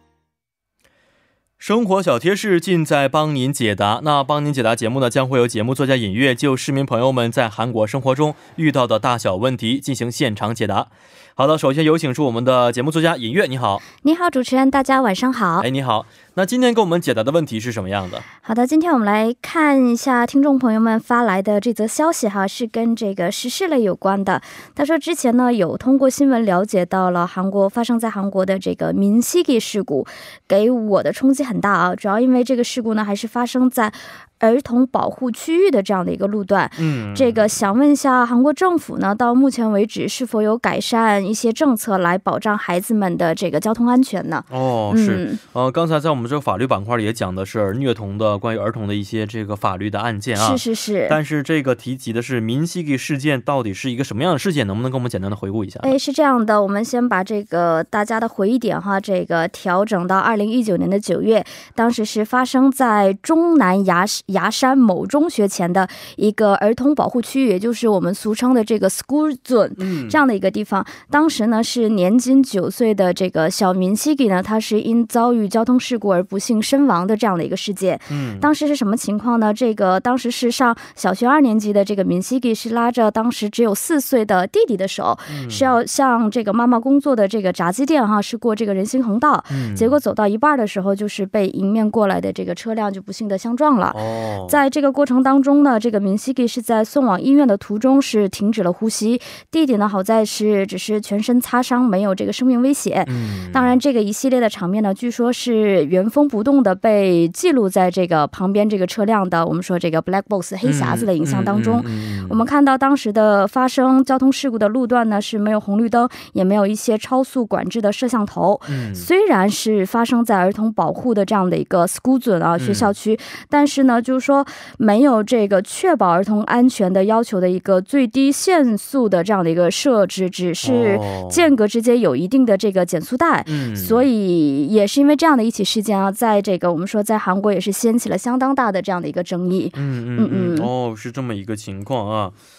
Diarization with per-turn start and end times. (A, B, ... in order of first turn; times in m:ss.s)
0:01.6-0:13.8 A
0:14.0-0:15.7 B
0:15.6-0:18.2 A
0:18.4-0:45.4 B
0:36.8-0:37.4 A
0:44.5-0:56.0 A
0:50.3-0:51.2 B
0:55.8-2:20.7 B
1:09.8-1:10.2 A
1:18.1-1:18.5 A
1:25.3-1:25.7 A
1:29.5-1:29.9 A
1:33.9-1:34.6 A
1:43.0-1:43.8 A
1:50.6-1:52.4 A
1:58.7-1:59.0 A
2:02.6-2:02.9 A
2:10.6-2:11.5 A
2:13.4-2:14.1 A
2:19.7-2:22.4 A